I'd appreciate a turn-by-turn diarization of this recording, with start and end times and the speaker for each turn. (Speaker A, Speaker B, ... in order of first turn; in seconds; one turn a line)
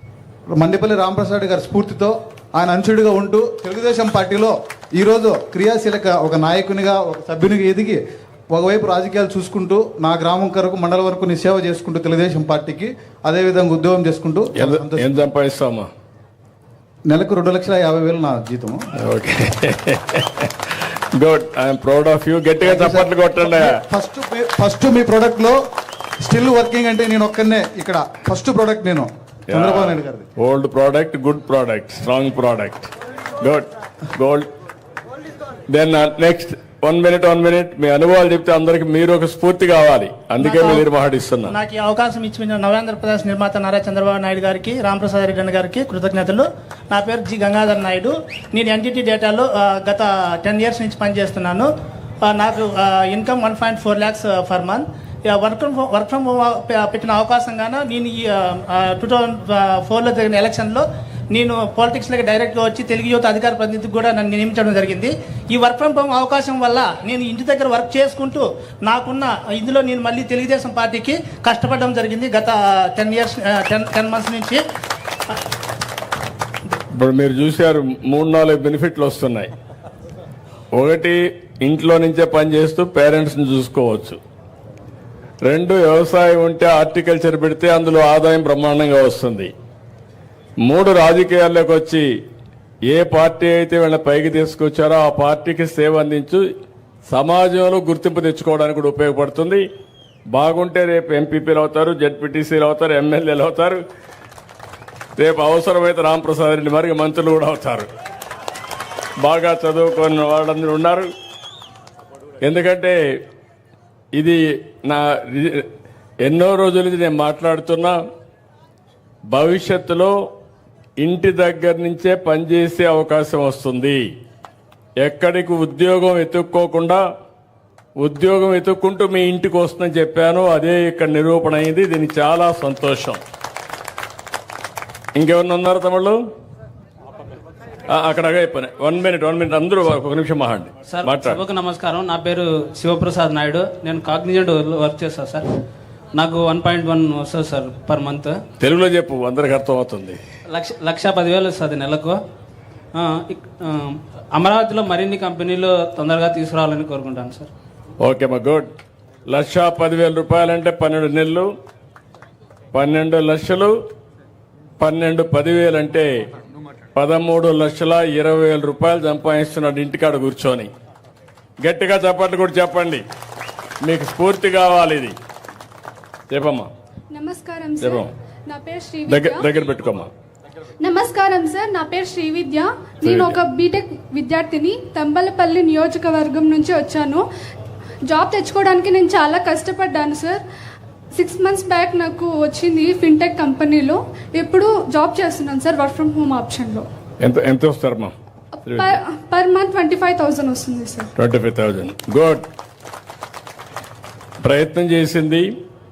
Speaker A: 0.6-8.0
Speaker A: 8.5-15.2
Speaker B: 14.6-15.9
Speaker A: 17.1-18.8
Speaker B: 19.0-20.5
Speaker B: 21.2-23.8
Speaker A: 22.6-25.6
Speaker A: 26.2-30.2
Speaker B: 29.5-32.9
Speaker B: 33.4-34.5
Speaker B: 35.7-41.5
Speaker C: 40.4-40.9
Speaker C: 41.5-51.7
Speaker C: 52.2-74.6
Speaker B: 76.9-79.5
Speaker B: 80.7-84.2
Speaker B: 85.5-89.5
Speaker B: 90.6-92.1
Speaker B: 92.9-96.4
Speaker B: 97.1-99.6
Speaker B: 100.3-103.8
Speaker B: 105.2-107.9
Speaker B: 109.2-111.1
Speaker B: 112.4-113.0
Speaker B: 114.2-115.7
Speaker B: 116.2-118.0
Speaker B: 119.3-120.2
Speaker B: 121.0-124.0
Speaker B: 125.0-127.0
Speaker B: 128.0-133.2
Speaker B: 135.2-136.2
Speaker B: 137.9-141.4
Speaker D: 140.9-145.5
Speaker D: 146.1-148.4
Speaker B: 148.6-150.2
Speaker D: 150.5-152.2
Speaker D: 152.9-157.5
Speaker B: 158.0-158.7
Speaker B: 159.3-161.5
Speaker B: 162.7-163.8
Speaker B: 164.8-166.1
Speaker B: 166.9-170.7
Speaker B: 171.6-173.0
Speaker B: 173.8-175.2
Speaker B: 176.3-176.7
Speaker E: 177.1-179.5
Speaker B: 177.8-178.1
Speaker B: 179.1-180.1
Speaker E: 180.8-187.2
Speaker B: 183.0-183.4
Speaker E: 188.1-190.4
Speaker E: 191.1-196.9
Speaker B: 197.2-198.1
Speaker B: 198.7-198.9
Speaker E: 198.7-201.1
Speaker B: 201.2-202.4
Speaker B: 204.4-205.5